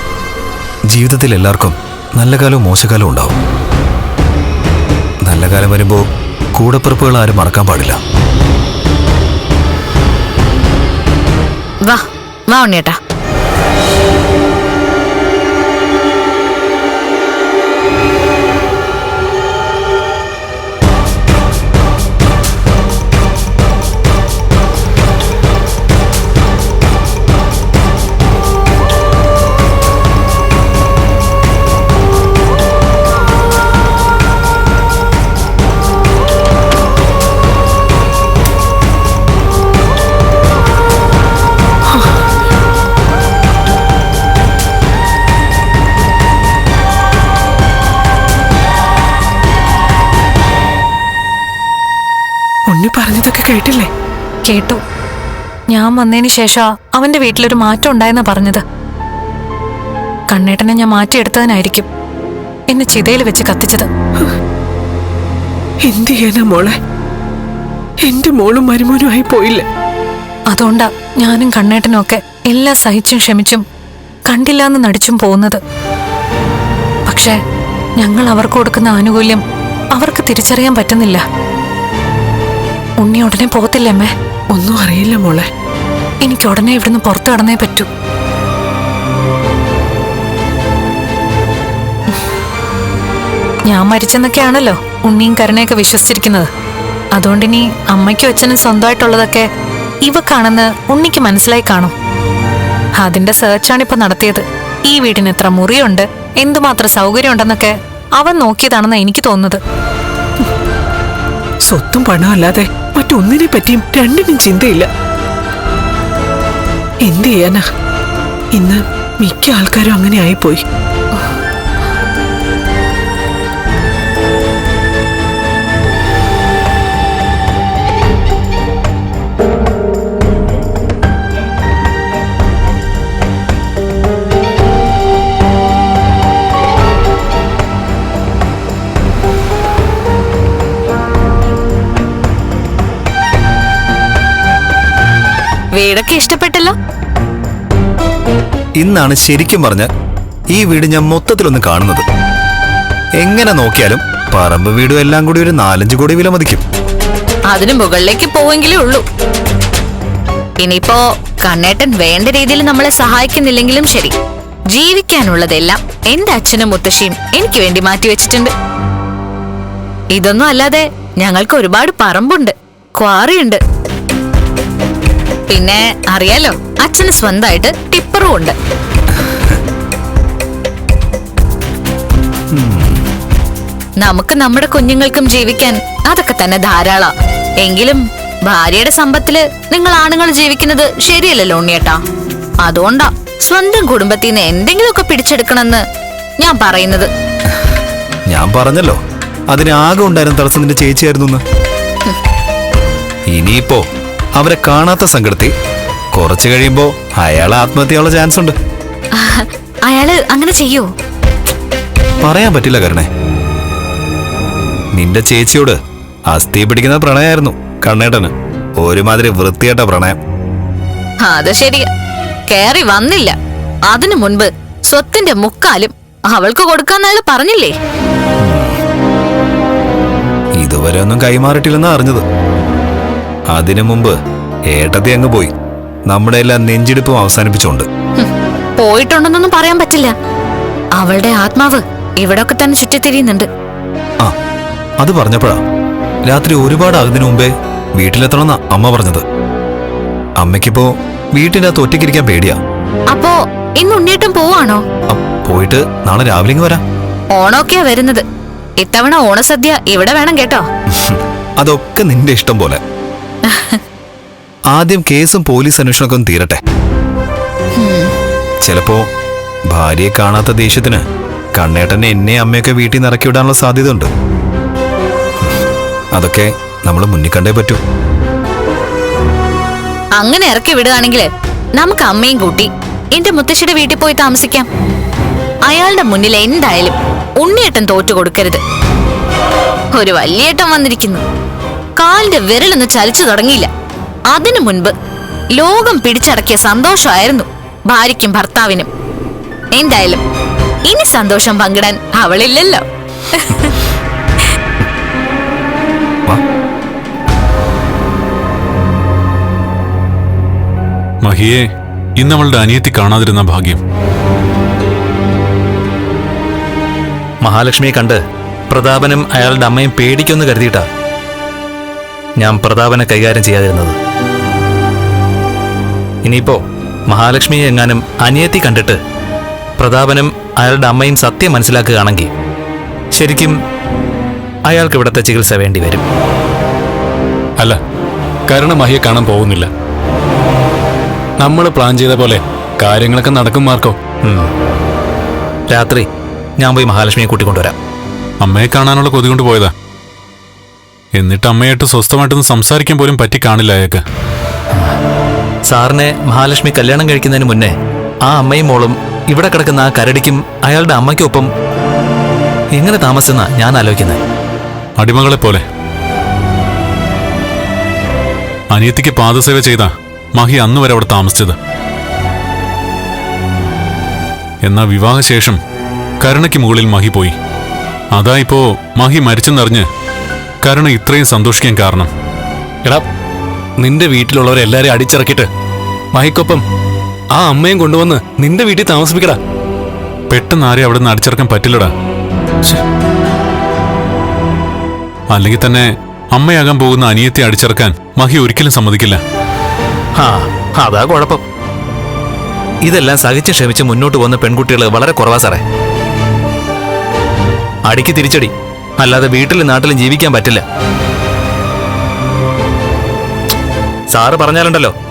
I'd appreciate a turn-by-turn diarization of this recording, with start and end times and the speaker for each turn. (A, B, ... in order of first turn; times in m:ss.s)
0:00.9-0:03.4 A
0:05.3-0:06.0 A
0:06.6-0:08.0 A
0:11.9-0:13.0 B
0:52.7-0:53.9 C
0:54.5-0:54.8 D
0:55.7-0:58.6 D
1:00.3-1:01.9 D
1:02.7-1:03.9 D
1:05.9-1:06.8 C
1:08.1-1:09.7 C
1:10.5-1:13.6 D
1:14.3-1:15.6 D
1:17.1-1:17.3 D
1:18.0-1:19.4 D
1:20.0-1:21.2 D
1:23.0-1:24.1 D
1:24.5-1:25.5 C
1:26.2-1:27.9 D
1:33.7-1:36.5 D
1:37.2-1:39.5 D
1:40.1-1:41.9 D
1:43.0-1:49.6 D
1:51.7-1:54.9 C
1:57.1-1:57.7 C
1:58.6-2:00.6 C
2:25.8-2:26.7 B
2:28.8-2:29.9 A
2:30.5-2:32.0 A
2:33.2-2:36.6 A
2:37.5-2:39.0 B
2:40.6-2:44.1 B
2:44.7-2:48.5 B
2:50.2-2:53.6 B
2:55.5-2:58.5 B
3:02.5-3:03.0 A
3:04.0-3:07.1 B
3:07.6-3:12.0 B
3:12.6-3:15.8 B
3:16.4-3:17.1 B
3:18.3-3:19.0 A
3:19.5-3:21.4 A
3:23.3-3:23.8 A
3:24.4-3:25.5 A
3:26.2-3:28.6 A
3:29.2-3:30.9 B
3:32.2-3:33.1 A
3:35.0-3:35.8 A
3:36.3-3:40.2 A
3:41.2-3:41.9 B
3:42.5-3:43.4 B
3:43.9-3:47.7 B
3:48.4-3:48.8 A
3:50.6-3:52.2 A
3:53.5-3:54.1 A
3:54.7-3:55.5 A
3:56.1-3:57.9 A
3:58.8-4:00.1 B
4:01.0-4:03.5 B
4:05.0-4:05.6 A
4:06.3-4:09.2 A
4:10.4-4:12.6 A
4:13.1-4:14.8 B
4:15.1-4:16.8 A
4:17.4-4:18.2 B
4:18.8-4:20.6 B
4:20.9-4:22.8 A
4:23.5-4:23.8 B
4:24.7-4:26.6 A
4:27.8-4:28.1 B
4:28.6-4:29.1 A
4:29.7-4:31.0 A
4:31.6-4:34.1 A
4:36.2-4:37.8 A
4:40.2-4:41.3 B
4:41.8-4:44.7 B
4:45.7-4:48.6 B
4:50.0-4:51.2 B
4:52.0-4:53.7 B
4:54.3-4:54.9 B
4:55.6-4:58.9 B
4:59.8-5:00.2 B
5:00.9-5:02.8 B
5:03.4-5:03.8 B
5:11.2-5:11.6 E
5:12.2-5:13.8 E
5:17.4-5:20.9 F
5:22.4-5:24.0 F
5:26.2-5:29.0 F
5:29.8-5:32.3 F
5:33.1-5:33.6 F
5:34.7-5:36.0 F
5:38.5-5:39.7 G
5:41.4-5:44.0 G
5:45.7-5:46.1 F
5:46.6-5:47.8 F
5:48.4-5:49.7 E
5:51.2-5:54.0 E
5:55.7-6:01.5 F
6:02.7-6:04.2 F
6:05.0-6:05.6 E
6:08.7-6:11.6 E
6:14.6-6:15.6 E
6:16.2-6:17.4 E
6:18.1-6:19.9 E
6:20.6-6:22.1 E
6:23.8-6:25.5 G
6:26.1-6:26.6 G
6:27.3-6:29.4 G
6:30.3-6:31.9 E
6:35.3-6:39.2 E
6:40.2-6:41.4 F
6:42.8-6:45.6 F
6:47.9-6:50.6 F
6:54.1-6:55.0 F